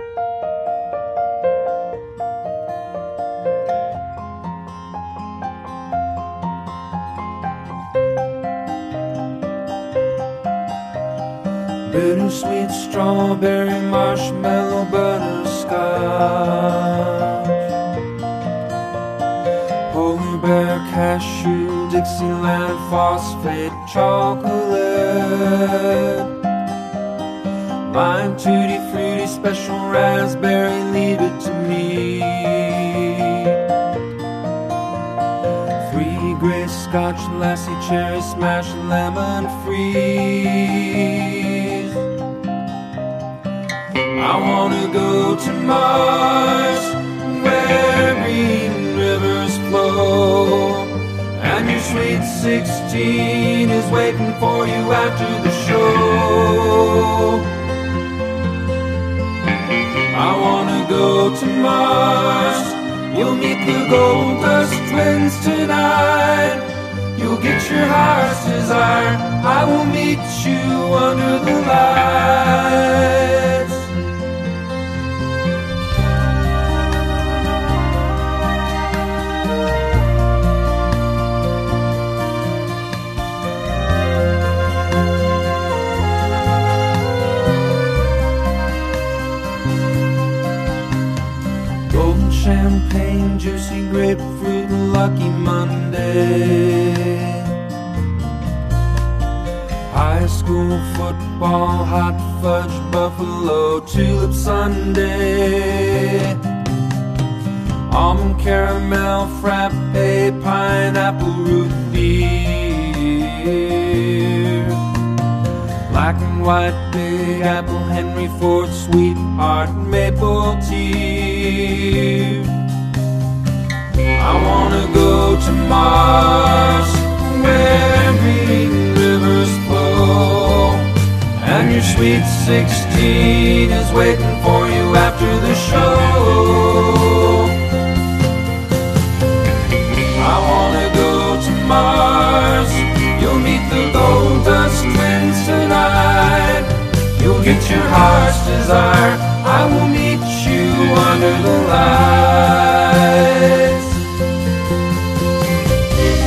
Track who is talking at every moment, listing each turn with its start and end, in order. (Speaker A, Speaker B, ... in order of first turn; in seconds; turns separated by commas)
Speaker A: 11.8-17.6, Speaker A: 19.9-26.3, Speaker A: 27.9-33.6, Speaker A: 35.8-42.1, Speaker A: 44.1-57.5, Speaker A: 60.1-73.9, Speaker A: 91.8-97.5, Speaker A: 99.9-106.4, Speaker A: 107.9-114.8, Speaker A: 115.9-122.6, Speaker A: 124.2-137.7, Speaker A: 140.2-153.9